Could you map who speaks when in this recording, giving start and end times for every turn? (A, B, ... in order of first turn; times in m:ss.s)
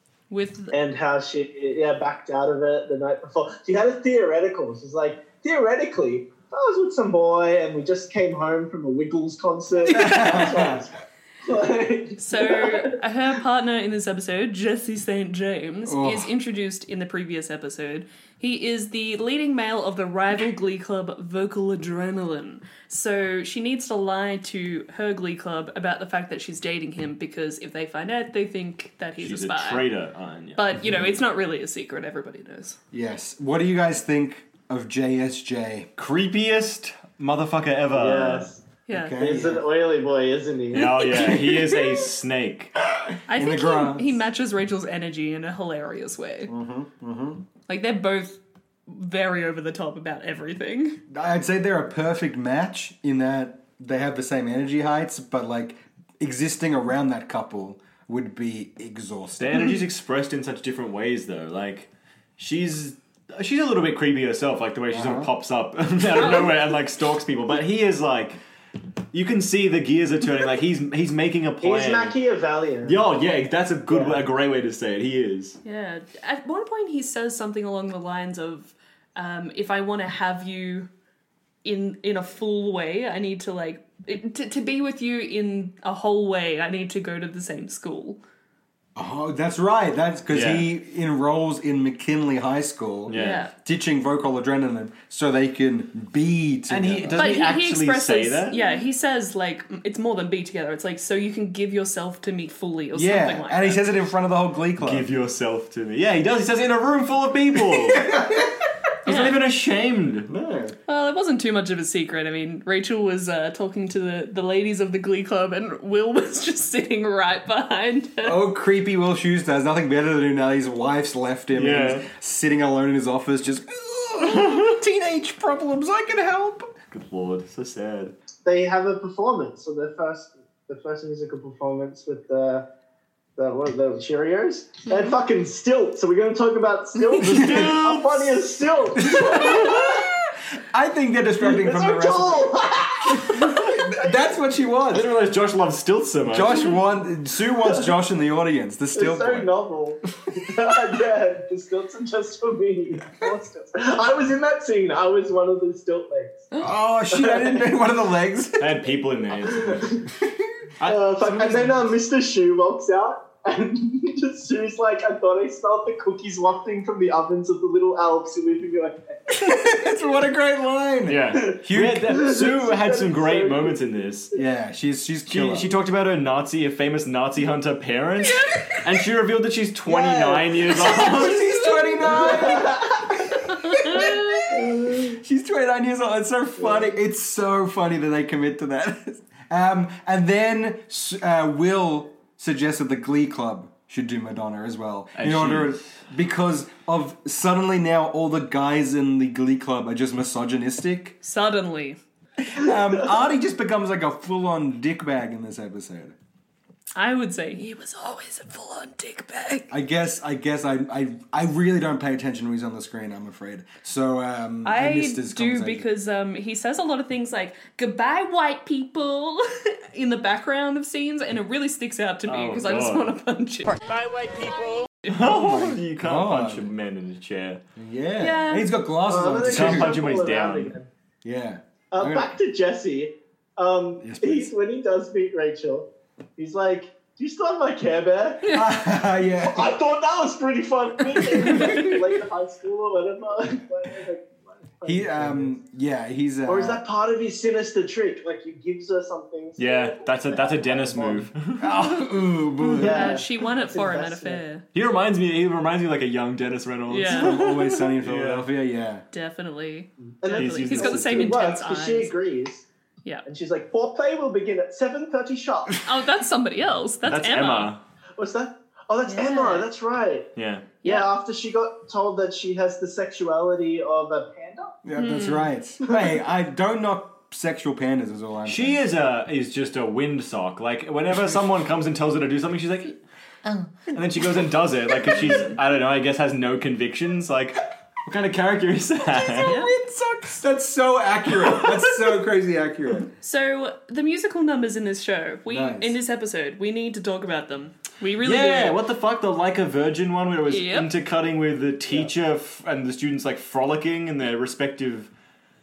0:00.3-0:00.8 A
0:00.7-0:13.0 B
0:09.9-0:10.5 A
0:09.9-0:10.8 C
0:12.2-0:29.9 A
0:15.8-0:16.3 C
0:29.2-0:30.9 D
0:30.6-0:32.8 A
0:32.9-0:35.9 C
0:36.0-0:38.5 D
0:37.9-0:38.6 B
0:38.9-0:39.2 A
0:38.9-0:39.7 C
0:39.2-0:41.3 B
0:40.7-0:42.7 D
0:42.9-0:44.2 C
0:43.3-0:46.5 A
0:46.5-0:47.4 C
0:47.7-0:51.0 A
0:51.1-0:59.7 C
0:59.4-1:08.4 D
1:04.9-1:05.3 C
1:09.1-1:12.1 D
1:11.6-1:13.0 B
1:12.8-1:15.6 D
1:13.9-1:14.2 B
1:15.6-1:20.9 A
1:21.6-1:28.2 A
1:29.0-1:37.2 C
1:30.3-1:30.7 D
1:33.1-1:33.5 D
1:33.1-1:33.5 A
1:36.7-1:38.6 D
1:37.2-1:43.8 A
1:42.9-1:45.1 C
1:44.8-1:48.0 D
1:47.6-1:48.6 C
1:49.0-1:50.3 D
1:49.0-1:49.4 A
1:50.3-1:50.7 C
1:50.9-1:58.4 A
1:58.2-2:06.7 C
2:01.5-2:02.1 D
2:04.3-2:04.7 D
2:06.9-2:08.1 D
2:08.4-2:12.6 B
2:13.4-2:20.1 B
2:17.2-2:18.4 D
2:17.2-2:17.8 C
2:19.0-2:25.1 C
2:21.4-2:24.4 B
2:24.9-2:26.8 D
2:26.2-2:29.5 C
2:27.6-2:27.9 B
2:28.9-2:36.5 B
2:36.6-2:38.8 C
2:37.1-2:37.6 B
2:38.6-2:40.0 D
2:39.4-2:40.0 B
2:40.2-2:40.5 C
2:40.8-2:41.8 D
2:40.8-2:49.5 B
2:49.3-2:52.3 C
2:51.0-2:54.3 D
2:52.1-2:53.8 B
2:54.3-2:55.7 C
2:55.3-3:01.4 D
2:59.9-3:21.2 C
3:00.9-3:01.8 A
3:02.2-3:03.0 B
3:03.4-3:04.5 A
3:04.5-3:05.2 B
3:15.2-3:15.9 D
3:21.2-3:22.0 A
3:22.4-3:26.2 C
3:27.0-3:29.7 A
3:29.7-3:35.9 C
3:34.6-3:43.8 A
3:42.3-3:43.1 D
3:45.0-3:47.6 D
3:45.2-3:46.7 C
3:47.8-3:50.0 C
3:48.2-3:48.8 A
3:49.1-3:50.9 B
3:49.5-3:50.7 D
3:51.2-3:52.3 C
3:51.9-3:58.6 B
3:54.0-3:54.5 C
3:58.5-3:59.7 C
3:59.4-4:05.6 B
4:01.4-4:01.9 C
4:01.4-4:01.9 A
4:04.8-4:06.8 C
4:06.4-4:11.3 B
4:09.6-4:11.7 D
4:11.6-4:13.2 C
4:12.8-4:14.4 B
4:12.9-4:14.6 A
4:14.7-4:18.5 D
4:16.9-4:17.4 A
4:17.0-4:19.0 C
4:19.1-4:22.1 A
4:20.0-4:22.6 B
4:20.4-4:21.3 D
4:20.7-4:21.3 C
4:23.2-4:25.8 B
4:25.8-4:27.7 A
4:27.0-4:27.8 D
4:28.2-4:30.3 B
4:29.1-4:29.7 A
4:30.4-4:30.7 D
4:30.8-4:31.1 A
4:30.8-4:34.8 B
4:34.8-4:38.8 C
4:35.0-4:35.5 A
4:38.4-4:43.0 D
4:43.9-4:49.6 D
4:45.0-4:45.5 C
4:49.0-4:53.1 C
4:49.4-4:49.7 A
4:53.2-4:58.8 A
4:55.5-4:56.0 C
4:58.2-5:05.1 D
5:00.5-5:00.9 A